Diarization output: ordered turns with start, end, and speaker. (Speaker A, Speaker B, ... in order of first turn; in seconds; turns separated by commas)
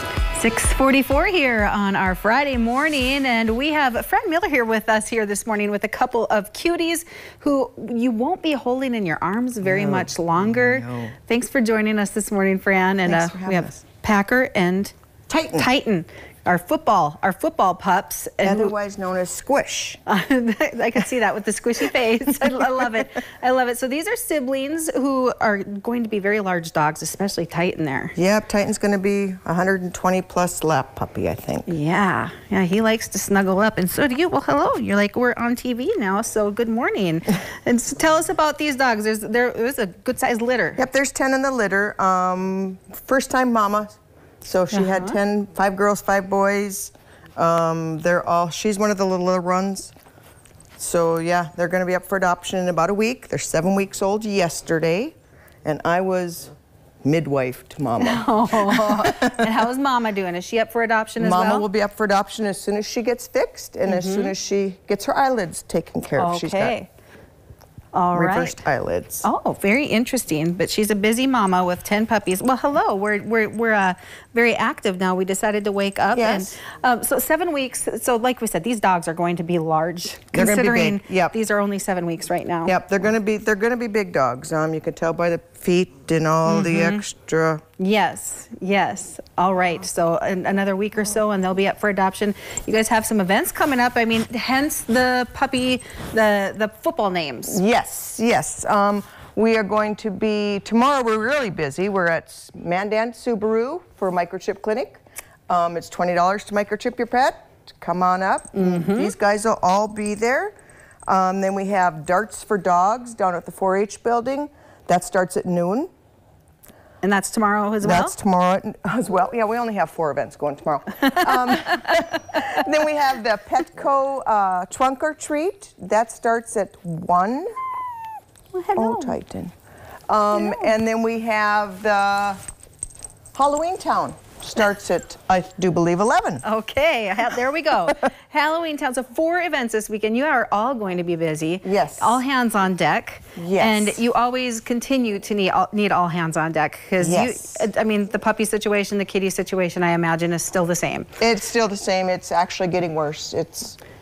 Speaker A: 0.3-14.9, Speaker B: 9.6-11.1, Speaker B: 13.0-13.8, Speaker B: 15.3-15.7, Speaker A: 15.6-18.7, Speaker B: 18.4-20.0, Speaker A: 20.1-28.1, Speaker B: 28.2-31.7, Speaker A: 31.7-40.8, Speaker B: 40.8-49.9, Speaker A: 44.7-45.2, Speaker B: 50.8-56.5, Speaker B: 57.0-59.5, Speaker A: 58.0-61.7, Speaker B: 61.2-66.8, Speaker A: 63.9-64.3, Speaker A: 66.2-66.9, Speaker A: 67.9-68.6, Speaker B: 68.1-69.3, Speaker A: 69.2-82.8, Speaker B: 76.1-76.6, Speaker B: 80.3-81.3, Speaker B: 82.7-87.6, Speaker A: 86.5-87.0, Speaker A: 87.8-97.6, Speaker B: 97.5-110.5, Speaker A: 108.5-109.1, Speaker B: 111.1-115.9, Speaker A: 117.0-118.2, Speaker B: 117.8-127.5, Speaker A: 128.5-129.2, Speaker B: 128.8-129.5, Speaker B: 130.1-132.4, Speaker A: 130.3-130.7, Speaker B: 133.3-136.4, Speaker A: 136.4-151.1, Speaker B: 141.6-142.2, Speaker B: 143.4-144.0, Speaker B: 147.0-147.6, Speaker B: 151.2-153.8